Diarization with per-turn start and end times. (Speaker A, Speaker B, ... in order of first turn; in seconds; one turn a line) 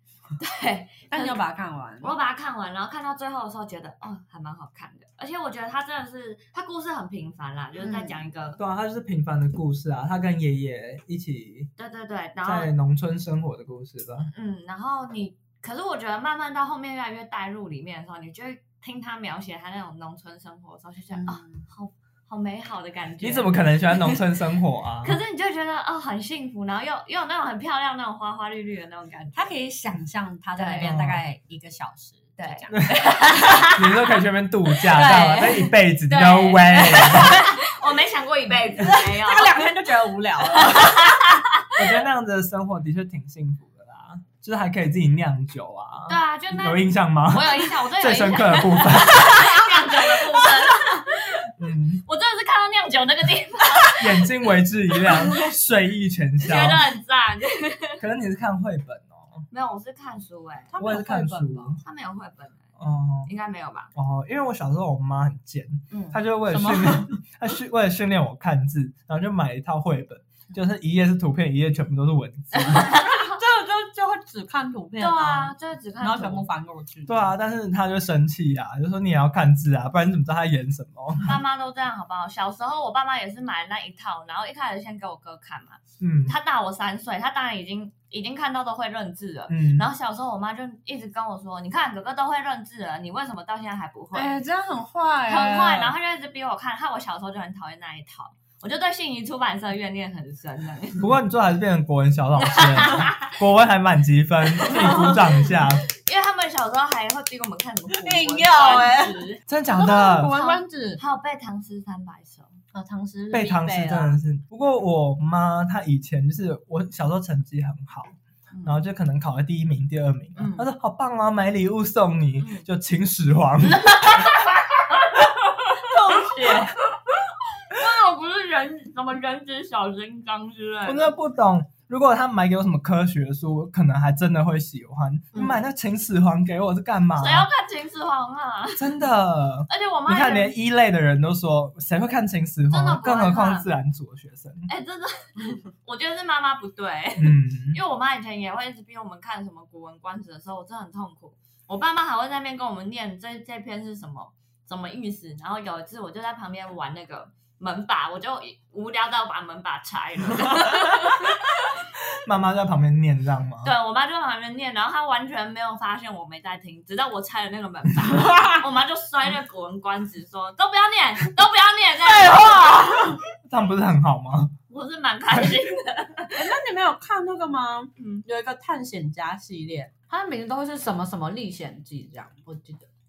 Speaker A: 0.4-1.4
Speaker B: 1.1-2.1
Speaker A: 2.0-8.6
Speaker B: 7.8-8.2
Speaker C: 8.6-11.7
Speaker A: 11.8-12.7
Speaker C: 12.4-14.3
Speaker A: 14.3-24.2
Speaker B: 21.1-21.6
Speaker C: 23.2-25.2
Speaker A: 25.0-29.5
Speaker B: 29.3-32.9
Speaker A: 30.6-30.9
Speaker C: 30.8-31.2
Speaker A: 32.4-34.0
Speaker C: 33.7-37.4
Speaker B: 34.8-35.7
Speaker A: 36.1-39.5
Speaker B: 38.8-41.1
Speaker A: 40.5-41.4
Speaker C: 41.8-49.5
Speaker A: 46.1-51.5
Speaker B: 49.3-51.0
Speaker C: 51.6-52.0
Speaker A: 52.0-54.3
Speaker C: 54.0-56.9
Speaker A: 55.0-55.4
Speaker A: 56.4-58.0
Speaker C: 58.0-59.4
Speaker A: 59.5-60.7
Speaker B: 60.7-61.8
Speaker C: 60.8-61.8
Speaker A: 61.8-62.7
Speaker C: 62.8-63.3
Speaker A: 63.2-63.9
Speaker C: 63.9-72.9
Speaker A: 65.9-66.2
Speaker B: 66.5-67.2
Speaker A: 72.5-73.4
Speaker B: 72.7-77.3
Speaker A: 75.0-76.5
Speaker C: 77.1-81.4
Speaker A: 81.2-94.4
Speaker C: 86.0-86.3
Speaker C: 89.5-89.9
Speaker B: 94.1-95.9
Speaker A: 95.3-101.1
Speaker C: 101.0-105.9
Speaker A: 102.4-103.3
Speaker A: 104.6-105.2
Speaker B: 104.7-105.2
Speaker A: 105.9-109.3
Speaker B: 108.0-111.0
Speaker C: 109.5-110.3
Speaker A: 110.3-112.5
Speaker B: 112.7-114.2
Speaker C: 113.3-124.3
Speaker A: 118.5-118.8
Speaker A: 120.3-120.7
Speaker A: 122.4-122.7
Speaker A: 123.8-126.7
Speaker B: 125.8-126.7
Speaker A: 127.7-131.1
Speaker C: 130.8-137.5
Speaker A: 135.3-135.6
Speaker A: 137.2-139.0
Speaker C: 138.8-144.7
Speaker A: 139.7-140.5
Speaker A: 142.7-143.7
Speaker A: 144.7-161.8
Speaker C: 147.2-147.8
Speaker C: 160.6-161.3
Speaker C: 162.1-163.7
Speaker A: 163.6-172.9
Speaker B: 168.2-168.6
Speaker B: 172.0-173.2
Speaker C: 173.5-174.5
Speaker A: 174.7-176.5
Speaker B: 176.3-182.8
Speaker A: 178.0-178.2